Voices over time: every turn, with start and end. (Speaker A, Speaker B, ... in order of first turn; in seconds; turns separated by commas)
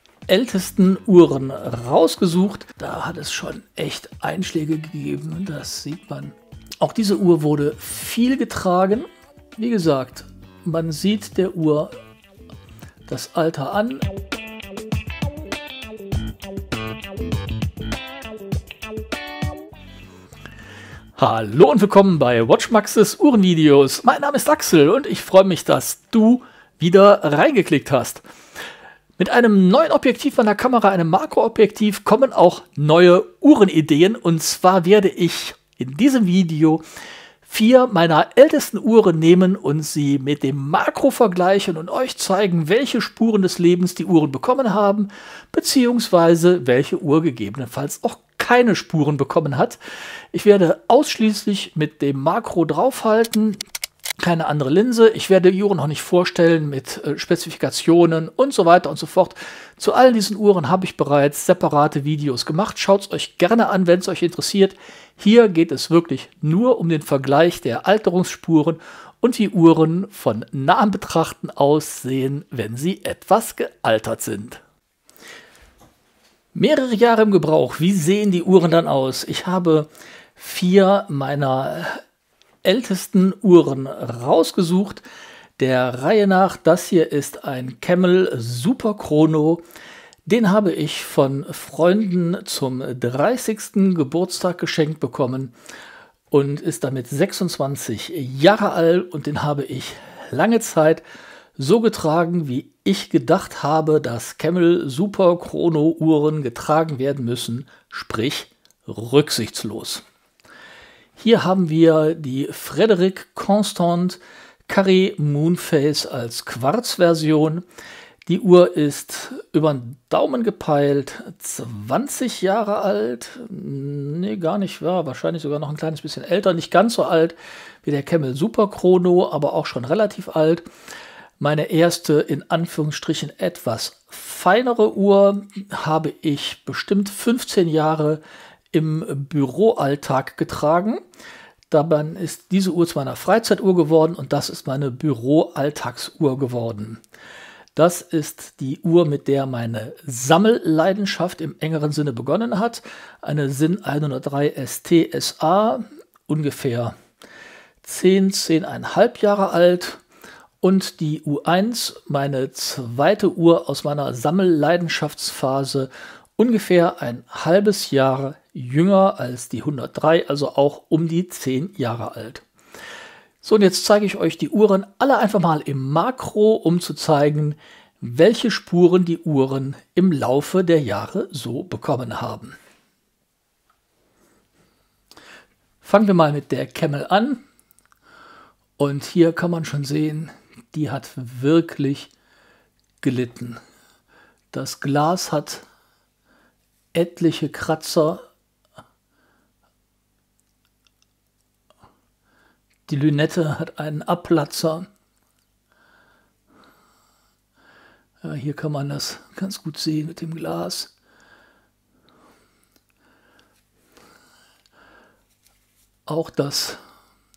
Speaker A: 0.3-11.9, Speaker A: 13.1-14.1, Speaker A: 21.2-28.2, Speaker A: 29.2-36.8, Speaker A: 37.4-49.8, Speaker A: 50.3-53.6, Speaker A: 54.2-74.6, Speaker A: 76.5-82.0, Speaker A: 82.6-85.0, Speaker A: 85.6-89.6, Speaker A: 90.2-95.5, Speaker A: 96.3-101.0, Speaker A: 101.6-110.0, Speaker A: 111.2-117.7, Speaker A: 118.2-130.6, Speaker A: 131.4-141.0, Speaker A: 141.7-147.0, Speaker A: 147.7-156.9, Speaker A: 157.8-160.0, Speaker A: 160.6-172.4, Speaker A: 173.4-182.6, Speaker A: 185.8-187.4, Speaker A: 188.8-192.1, Speaker A: 193.0-193.6, Speaker A: 194.5-195.6, Speaker A: 196.9-198.2, Speaker A: 202.9-204.9, Speaker A: 208.2-210.9, Speaker A: 216.1-216.8